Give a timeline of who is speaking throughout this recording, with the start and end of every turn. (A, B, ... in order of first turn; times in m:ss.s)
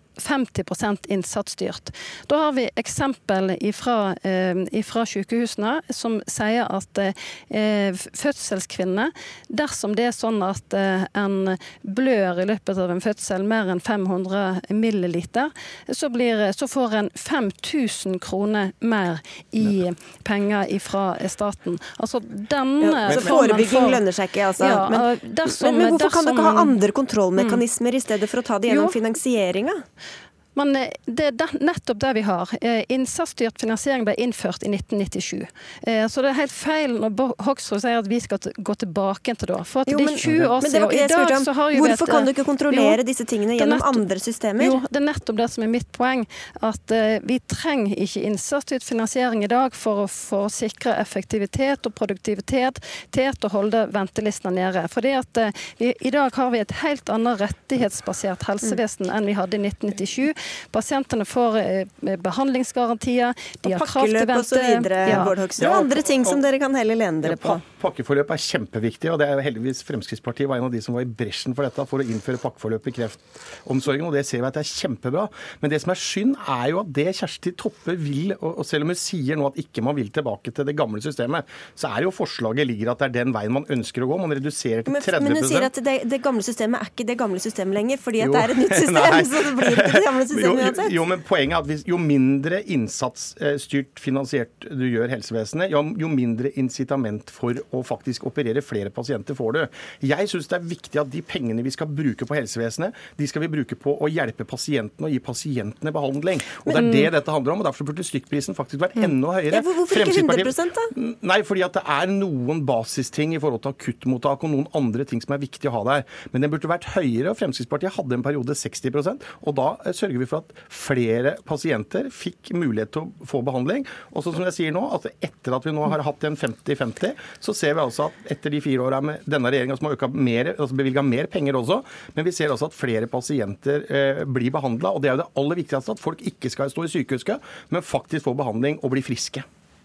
0:00.2-0:24.0 A
0:22.8-0:29.8 B
0:23.1-0:23.4 C
0:24.6-0:26.8 A
0:27.4-0:27.6 A
0:28.7-0:29.0 A
0:30.6-0:43.0 A
0:39.9-0:44.8 B
0:43.6-0:44.0 A
0:44.6-1:05.4 A
1:03.6-1:07.6 B
1:05.6-1:06.4 C
1:07.2-1:25.7 C
1:24.8-1:30.9 B
1:28.2-2:19.4 C
1:49.5-1:50.9 B